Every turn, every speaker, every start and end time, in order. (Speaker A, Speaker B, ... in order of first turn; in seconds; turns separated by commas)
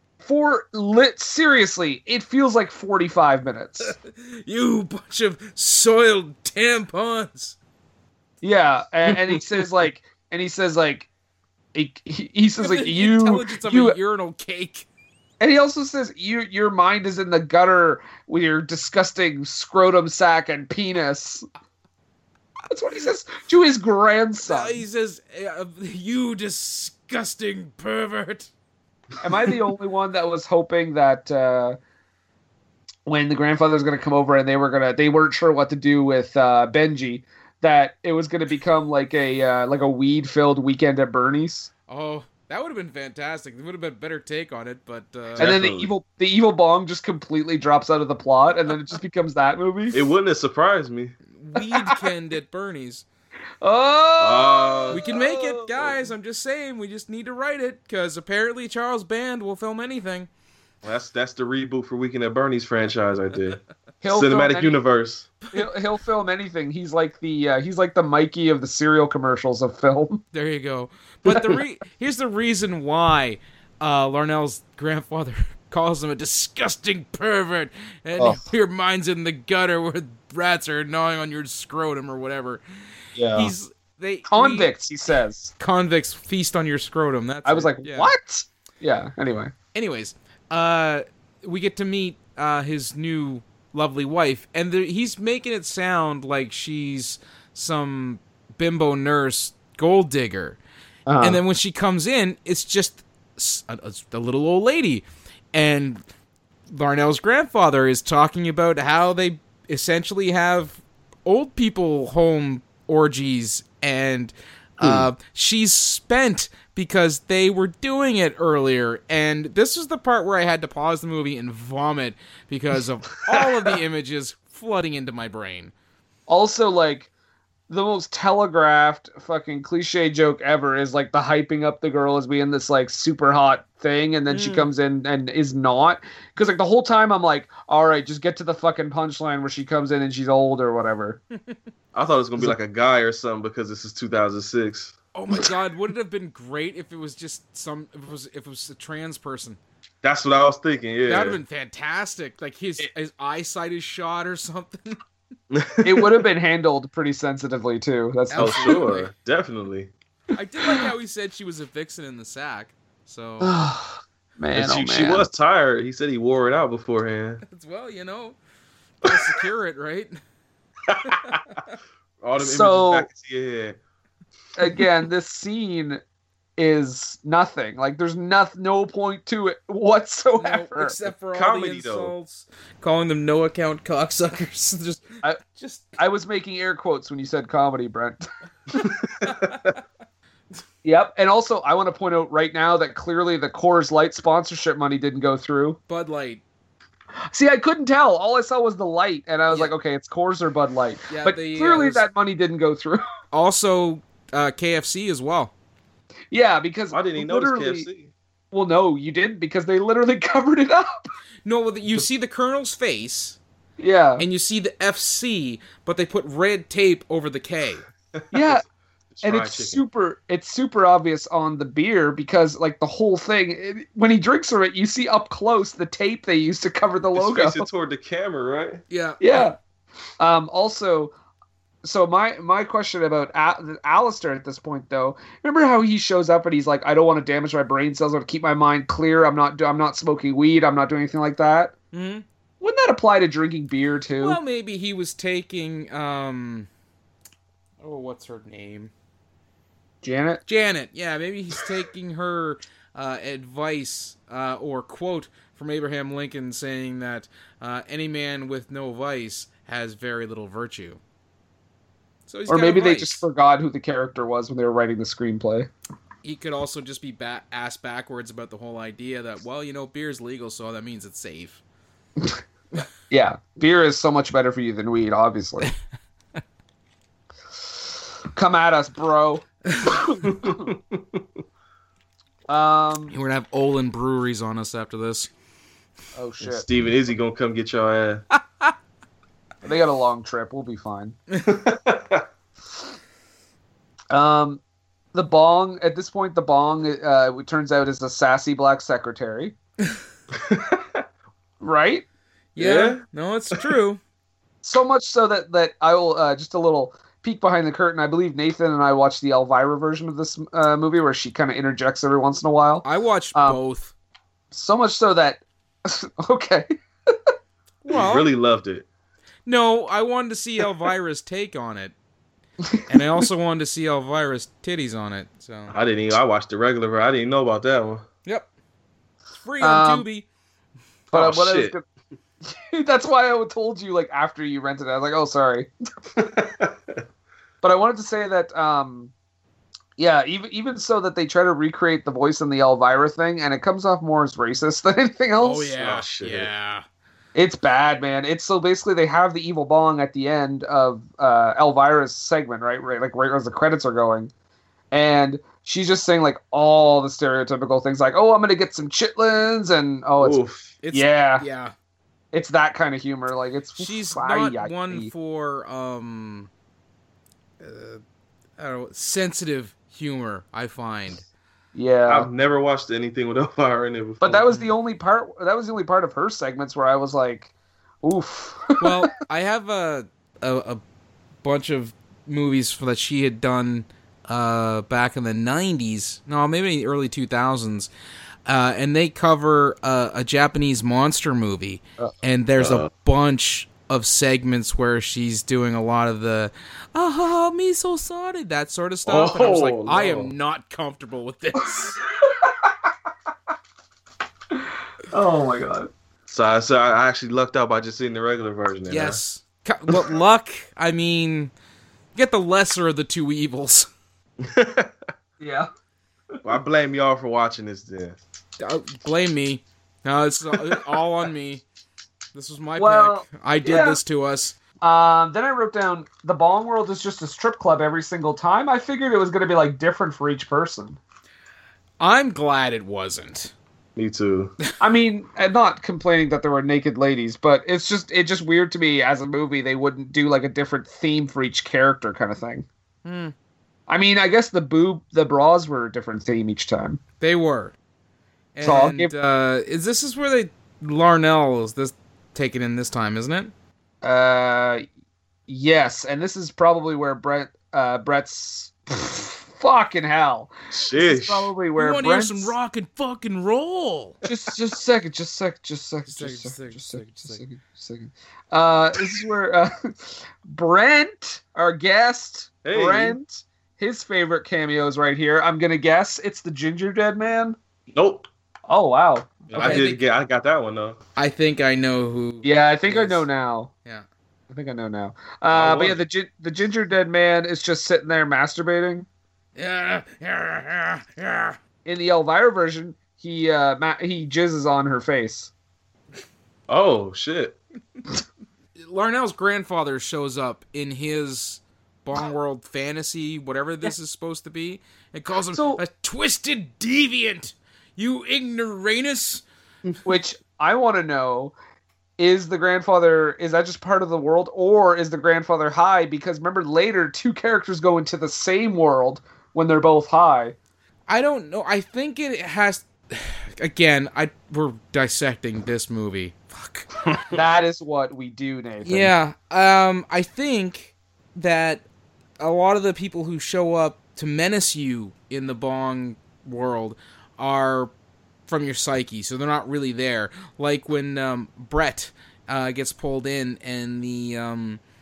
Speaker A: 0.2-3.9, Speaker B: 3.8-7.6, Speaker A: 8.4-11.1, Speaker A: 11.7-14.0, Speaker B: 12.6-14.9, Speaker A: 15.4-21.4, Speaker A: 22.7-24.8, Speaker B: 24.4-28.5, Speaker A: 29.2-31.8, Speaker A: 33.1-41.7, Speaker B: 41.9-45.5, Speaker C: 45.4-45.9, Speaker A: 45.4-50.0, Speaker C: 49.9-51.1, Speaker B: 51.4-53.0, Speaker A: 51.6-52.0, Speaker A: 53.6-55.9, Speaker C: 54.2-55.0, Speaker B: 54.9-60.3, Speaker C: 60.8-65.3, Speaker A: 64.0-64.8, Speaker A: 65.5-70.2, Speaker B: 70.3-82.6, Speaker A: 78.2-78.4, Speaker A: 83.2-83.5, Speaker B: 83.3-84.7, Speaker A: 84.3-85.5, Speaker B: 85.6-88.1, Speaker A: 87.5-89.5, Speaker B: 89.7-100.6, Speaker A: 101.1-101.4, Speaker B: 101.2-106.0, Speaker B: 106.7-125.7, Speaker A: 114.8-115.1, Speaker A: 126.3-127.1, Speaker A: 127.7-141.2, Speaker B: 134.3-134.7, Speaker C: 141.9-144.9, Speaker B: 145.2-149.6, Speaker C: 150.0-151.4, Speaker B: 151.1-155.0, Speaker C: 155.5-156.2, Speaker A: 155.8-158.9, Speaker B: 158.3-159.1, Speaker C: 158.3-159.9, Speaker B: 160.3-163.6, Speaker A: 163.4-165.3, Speaker C: 164.6-167.4, Speaker B: 167.5-168.4, Speaker B: 169.0-170.2, Speaker C: 170.9-171.4, Speaker B: 171.1-171.4, Speaker C: 172.2-173.8, Speaker A: 172.4-173.1, Speaker A: 174.6-176.0, Speaker A: 176.6-181.0, Speaker B: 180.4-186.0, Speaker C: 181.3-182.1, Speaker A: 186.0-188.2, Speaker C: 188.8-189.7, Speaker B: 189.2-189.6, Speaker A: 190.8-195.8, Speaker B: 195.9-196.4, Speaker A: 197.3-203.0, Speaker B: 201.1-202.1, Speaker B: 203.3-205.5, Speaker A: 206.3-207.9, Speaker C: 206.9-208.1, Speaker A: 208.5-211.1, Speaker B: 211.4-213.4, Speaker A: 213.8-214.2, Speaker B: 214.2-217.9, Speaker C: 218.2-218.6, Speaker A: 218.3-218.6, Speaker C: 219.1-219.8, Speaker A: 219.2-227.7, Speaker C: 227.2-228.8, Speaker B: 228.9-229.5, Speaker A: 229.2-229.6, Speaker A: 230.2-231.1, Speaker A: 231.8-241.7, Speaker B: 241.9-242.2, Speaker A: 242.6-244.4, Speaker B: 244.2-246.7, Speaker B: 247.8-248.9, Speaker A: 250.0-250.4, Speaker B: 250.5-261.0, Speaker B: 262.3-263.2, Speaker A: 262.5-265.7, Speaker B: 266.2-271.6, Speaker A: 273.1-275.7, Speaker A: 278.4-280.6, Speaker C: 280.3-281.2, Speaker A: 282.5-283.1, Speaker B: 283.1-285.3, Speaker A: 286.1-286.6, Speaker C: 286.4-288.2, Speaker A: 289.6-291.1, Speaker C: 291.5-292.2, Speaker A: 294.1-294.6, Speaker A: 295.1-299.6, Speaker C: 300.3-301.0, Speaker A: 301.6-302.1, Speaker B: 302.6-304.0, Speaker C: 302.6-303.0, Speaker A: 304.6-313.6, Speaker B: 312.8-313.9, Speaker A: 314.5-317.3, Speaker B: 317.8-318.3, Speaker C: 317.9-318.9, Speaker B: 319.5-321.9, Speaker B: 322.9-325.8, Speaker C: 325.7-328.1, Speaker B: 329.3-330.3, Speaker A: 329.6-330.1, Speaker C: 331.1-331.8, Speaker A: 331.1-331.8, Speaker A: 332.4-335.7, Speaker C: 336.2-337.0, Speaker A: 337.6-339.1, Speaker A: 340.0-345.7, Speaker B: 345.4-346.9, Speaker C: 345.8-346.5, Speaker A: 347.4-354.3, Speaker A: 354.9-360.4, Speaker C: 360.2-360.8, Speaker B: 360.8-361.7, Speaker A: 360.9-361.5, Speaker A: 362.3-365.1, Speaker B: 363.8-366.5, Speaker B: 367.6-368.0, Speaker B: 368.6-371.2, Speaker A: 371.8-372.3, Speaker C: 372.1-374.4, Speaker A: 374.2-377.5, Speaker B: 374.3-374.7, Speaker A: 378.0-378.9, Speaker B: 378.8-380.8, Speaker B: 381.4-387.9, Speaker B: 388.5-402.0, Speaker C: 392.6-392.9, Speaker C: 399.1-400.3, Speaker A: 405.1-405.9, Speaker C: 406.3-409.2, Speaker B: 408.9-411.5, Speaker B: 412.2-413.9, Speaker C: 414.4-414.9, Speaker A: 415.4-415.7, Speaker C: 416.4-418.2, Speaker B: 418.6-421.6, Speaker B: 422.3-424.6, Speaker A: 422.8-424.0, Speaker A: 424.8-431.0, Speaker B: 432.0-433.5, Speaker C: 434.0-434.5, Speaker A: 434.8-442.7, Speaker B: 443.1-443.3, Speaker A: 443.9-447.0, Speaker B: 447.2-447.7, Speaker B: 448.6-453.5, Speaker A: 448.6-449.1, Speaker A: 454.0-454.9, Speaker A: 455.5-462.6, Speaker C: 460.7-461.5, Speaker B: 461.8-464.2, Speaker A: 464.2-477.6, Speaker B: 466.1-467.4, Speaker C: 472.6-473.2, Speaker C: 477.9-478.3, Speaker A: 478.7-479.9, Speaker C: 479.5-481.0, Speaker B: 479.6-480.0, Speaker B: 481.2-483.3, Speaker A: 482.4-483.7, Speaker A: 484.5-489.1, Speaker C: 485.5-486.0, Speaker B: 489.6-491.6, Speaker A: 491.9-495.5, Speaker C: 496.7-497.6, Speaker B: 498.8-509.4, Speaker A: 505.5-505.8, Speaker A: 510.1-511.6, Speaker A: 512.2-520.5, Speaker B: 521.1-526.9, Speaker C: 527.1-527.4, Speaker A: 527.3-529.1, Speaker B: 528.9-531.9, Speaker B: 532.4-537.9, Speaker B: 538.5-544.8